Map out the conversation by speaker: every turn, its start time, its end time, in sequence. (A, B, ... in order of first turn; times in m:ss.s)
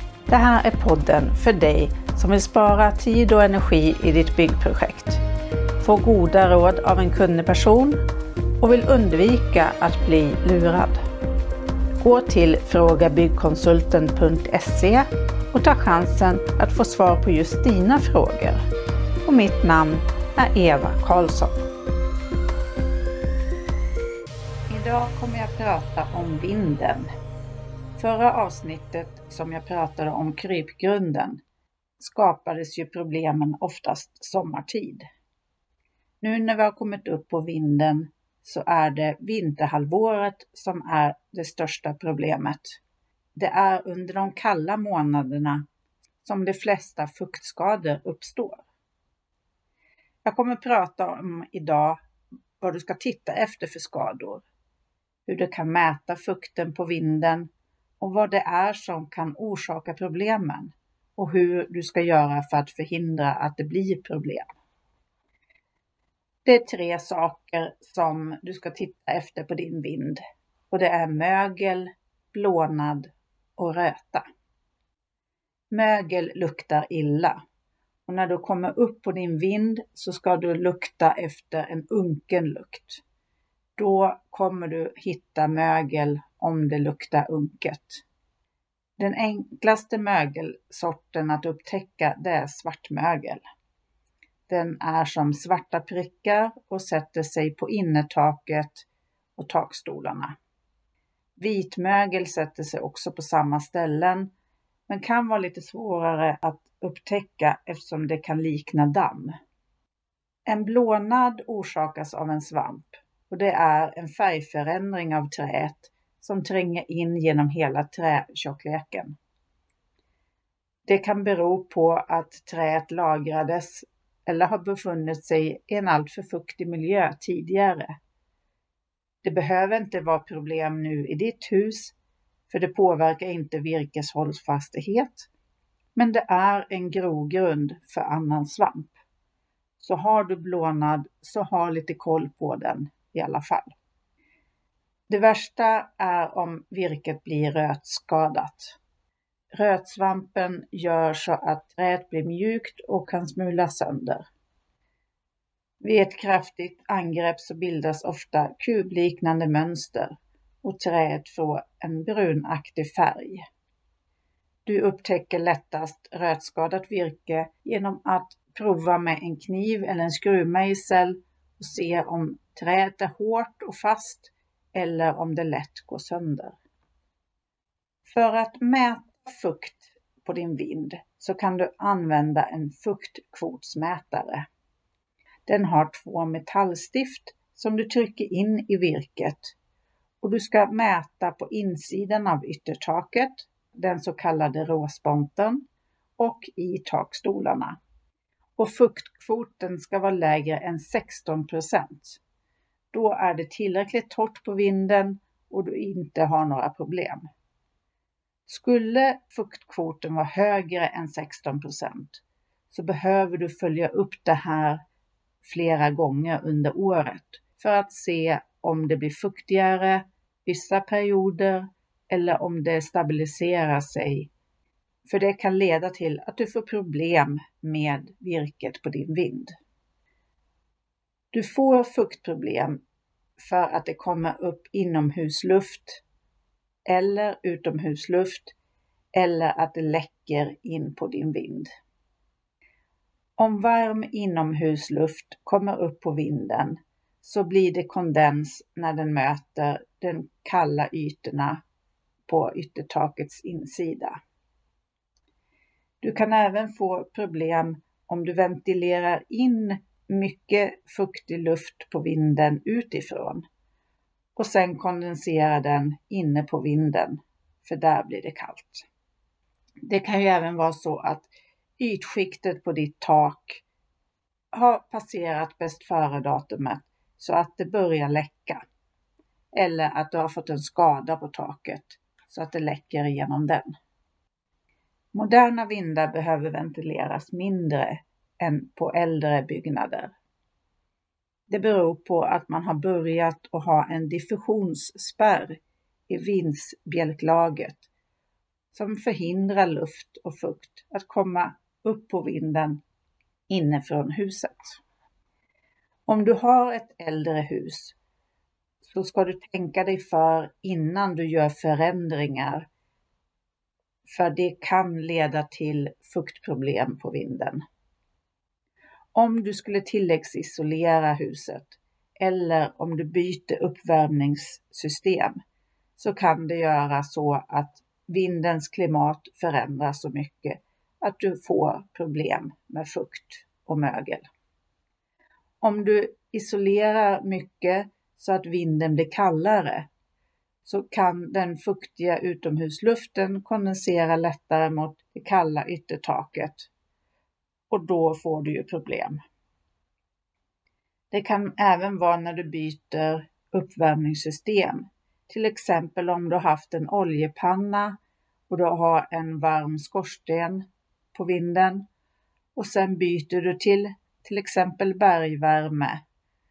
0:00.3-0:05.2 A
0:05.8-0:08.0 A
0:08.6-0:11.0 A
0:12.0-0:18.6 A
0:19.2-0:21.6 A
0:24.7-0:27.1 A
0:28.0-0:31.4 A
0:32.0-0:35.0 A
0:36.2-0:42.8 A
0:43.4-0:45.6 A
0:46.2-0:48.6 A
0:50.2-0:52.0 A
0:52.6-0:54.4 A
0:55.3-1:04.5 A
1:06.4-1:14.2 A
1:15.7-1:17.4 A
1:18.1-1:23.0 A
1:23.8-1:28.0 A
1:29.0-1:33.4 A
1:34.5-1:40.3 A
1:41.4-1:44.3 A
1:44.9-1:49.3 A
1:50.5-1:59.2 A
2:00.8-2:08.0 A
2:09.2-2:12.0 A
2:12.5-2:15.3 A
2:15.9-2:19.0 A
2:19.8-2:23.7 A
2:25.1-2:28.8 A
2:29.5-2:34.2 A
2:35.8-2:43.4 A
2:44.6-2:56.6 A
2:58.1-3:04.5 A
3:05.4-3:09.6 A
3:10.2-3:15.6 A
3:16.2-3:17.8 A
3:18.6-3:22.2 A
3:22.9-3:27.3 A
3:28.5-3:34.8 A
3:35.4-3:44.3 A
3:45.0-3:49.5 A
3:51.3-3:52.8 A
3:53.4-3:56.0 A
3:56.9-3:58.5 A
3:59.1-4:01.7 A
4:03.4-4:11.6 A
4:12.3-4:14.2 A
4:16.0-4:23.4 A
4:24.4-4:28.8 A
4:29.8-4:33.6 A
4:34.5-4:38.6 A
4:39.6-4:43.7 A
4:45.1-4:50.1 A
4:51.5-4:57.9 A
4:58.7-5:02.8 A
5:03.5-5:04.8 A
5:06.1-5:08.0 A
5:08.8-5:12.7 A
5:14.0-5:17.6 A
5:19.1-5:25.4 A
5:26.0-5:34.3 A
5:35.6-5:39.9 A
5:40.6-5:46.7 A
5:47.7-5:49.2 A
5:51.1-5:58.0 A
5:58.5-6:01.8 A
6:02.6-6:06.0 A